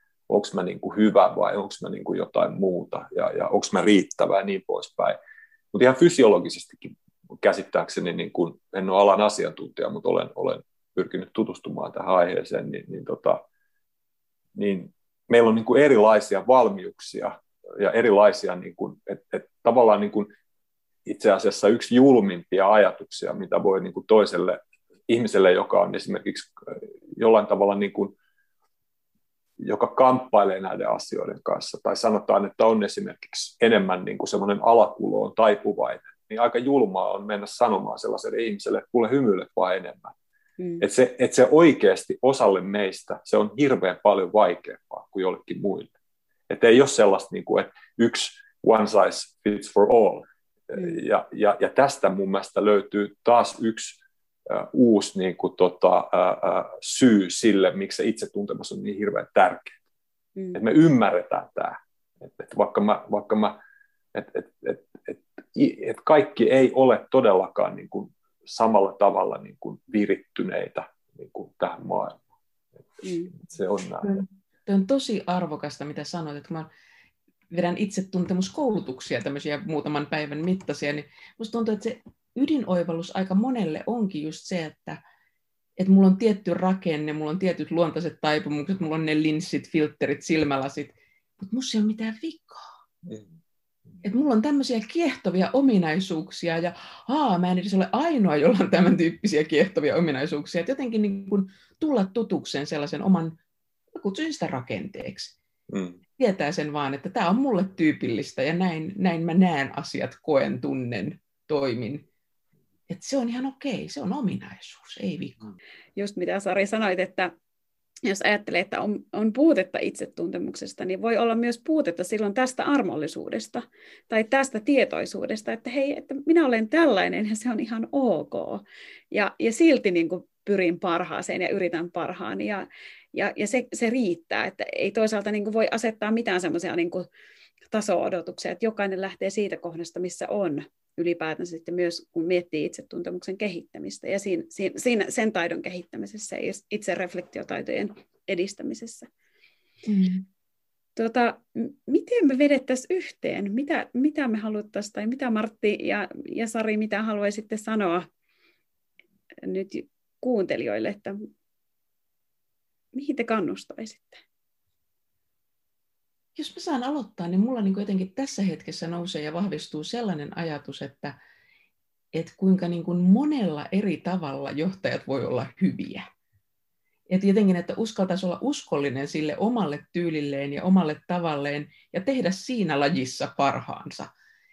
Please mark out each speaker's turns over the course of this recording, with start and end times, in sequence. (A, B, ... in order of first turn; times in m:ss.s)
0:00.3-0:05.2 A
0:05.7-0:13.4 A
0:14.6-0:20.3 A
0:21.0-0:28.2 A
0:29.6-0:40.1 A
0:40.8-0:45.9 A
0:46.5-0:59.8 A
1:00.5-1:03.6 A
1:04.1-1:12.2 A
1:13.0-1:13.3 B
1:13.3-1:14.2 A
1:14.0-1:16.7 C
1:17.5-1:25.0 C
1:25.8-1:32.7 C
1:34.0-1:43.4 C
1:43.9-1:45.4 C
1:45.7-1:46.0 A
1:46.2-1:52.0 C
1:52.9-1:55.5 C
1:56.0-1:57.3 B
1:58.0-2:17.1 B
2:17.7-2:29.1 B
2:29.9-2:30.2 C
2:31.0-2:38.1 B
2:39.4-2:41.2 B
2:42.9-2:44.2 B
2:46.4-2:51.2 C
2:52.1-2:56.1 C
2:57.1-3:04.1 C